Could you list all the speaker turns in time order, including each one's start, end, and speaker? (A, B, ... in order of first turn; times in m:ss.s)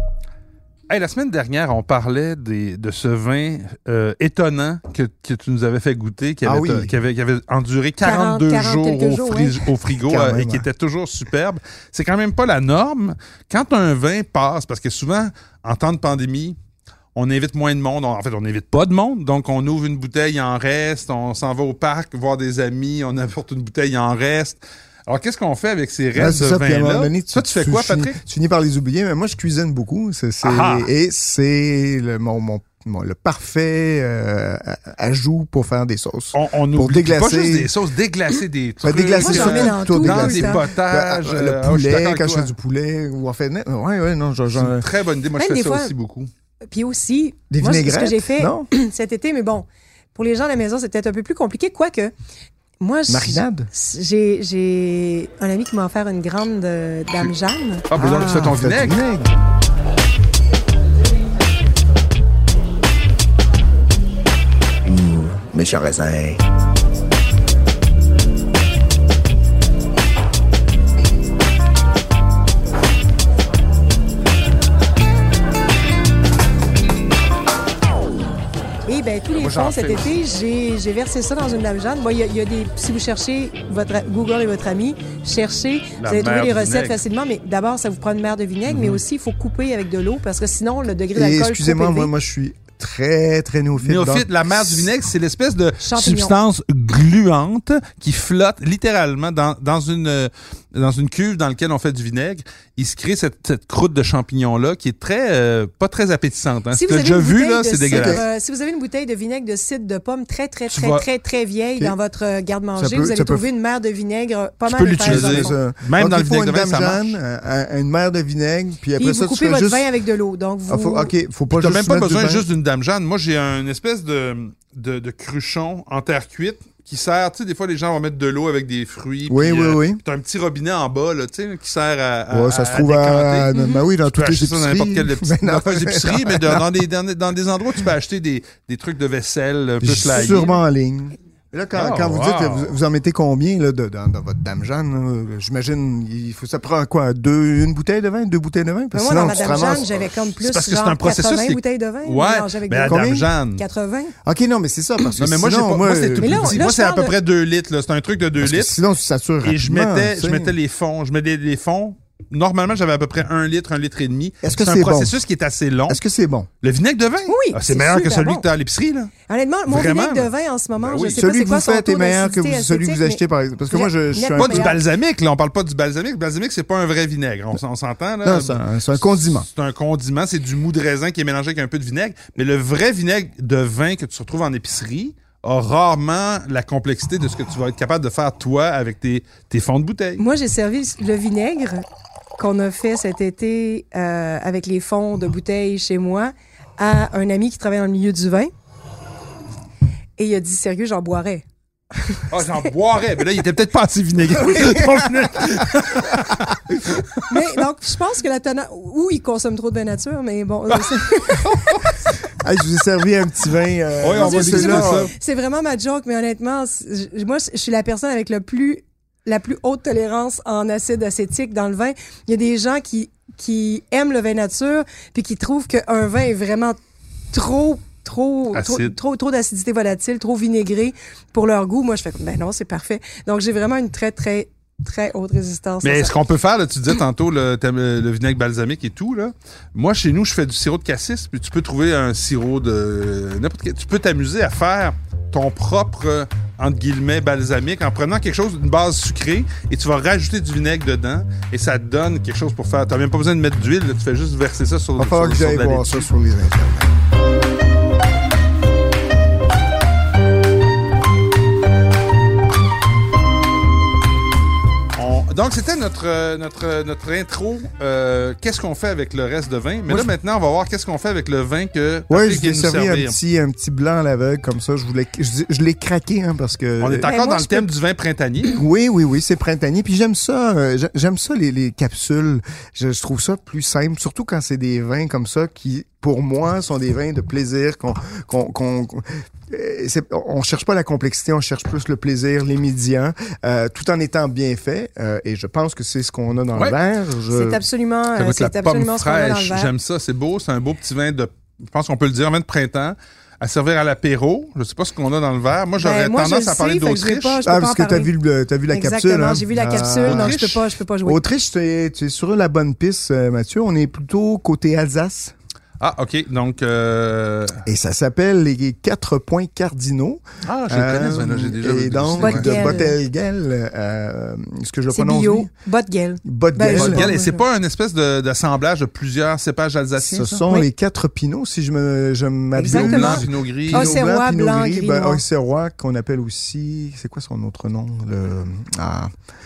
0:00.9-0:16.6 A
0:06.4-0:07.0 B
0:08.0-0:09.6 C
0:10.0-0:10.7 B
0:17.2-0:28.2 A
0:26.1-0:37.7 B
0:30.4-0:30.9 A
0:36.3-0:42.5 A
0:38.8-0:44.9 B
0:39.2-0:40.7 C
0:44.5-0:46.3 A
0:45.4-0:45.9 C
0:46.7-0:52.1 C
0:47.5-0:48.7 B
0:52.8-0:57.9 C
0:53.1-0:53.7 B
0:57.9-0:59.0 A
0:58.0-0:59.3 B
1:04.8-1:06.4 B
1:18.8-1:32.1 C
1:19.3-1:20.1 A
1:26.0-1:27.0 A
1:28.7-1:29.0 A
1:31.1-1:34.9 B
1:33.8-1:48.2 A
1:35.8-1:36.4 C
1:46.7-1:55.6 C
1:47.9-1:48.2 B
1:50.7-1:51.0 A
1:52.7-1:53.4 B
1:54.6-1:57.2 A
1:55.0-1:59.9 B
1:59.0-2:01.1 C
2:00.7-2:02.4 B
2:01.5-2:13.5 A
2:09.3-2:10.0 B
2:12.3-2:16.7 B
2:13.5-2:13.8 C
2:14.1-2:20.5 A
2:19.8-2:30.1 B
2:20.1-2:20.6 C
2:21.7-2:22.8 A
2:28.9-2:34.1 C
2:29.2-2:33.6 A
2:32.9-2:33.3 B
2:34.2-2:36.6 B
2:35.2-2:38.8 A
2:36.2-2:37.1 C
2:38.4-2:40.5 B
2:39.4-2:46.0 A
2:44.4-2:45.2 B
2:45.9-2:46.5 B
2:46.6-2:49.1 A
2:47.3-2:48.5 C
2:49.3-2:54.8 C
2:49.7-2:51.2 A
2:51.2-2:54.8 B
2:54.4-3:10.2 A
2:58.2-2:59.5 B
3:10.2-3:11.8 C
3:12.4-3:18.5 C
3:20.2-3:21.4 C
3:22.0-3:22.6 C
3:22.3-3:27.2 A
3:24.4-3:25.1 B
3:27.3-3:32.1 C
3:30.8-3:32.0 A
3:32.4-3:35.1 B
3:34.0-3:35.1 A
3:34.2-3:46.8 C
3:47.3-3:56.1 C
3:48.5-3:49.0 A
3:55.8-4:16.1 A
4:15.0-4:16.9 B
4:25.0-4:33.2 A
4:32.1-4:37.1 B
4:36.8-4:38.6 A
4:37.0-4:37.7 C
4:38.5-4:57.6 B
4:57.3-4:59.7 C
4:58.1-5:07.4 A
5:05.8-5:08.1 C
5:07.4-5:15.3 B
5:08.7-5:11.2 C
5:10.0-5:10.6 A
5:15.8-5:17.6 A
5:17.7-5:25.5 B
5:20.4-5:22.8 A
5:22.2-5:23.0 C
5:24.9-5:27.4 C
5:26.2-5:27.1 B
5:26.6-5:30.4 A
5:30.0-5:39.1 B
5:32.6-5:35.2 C
5:32.7-5:34.0 A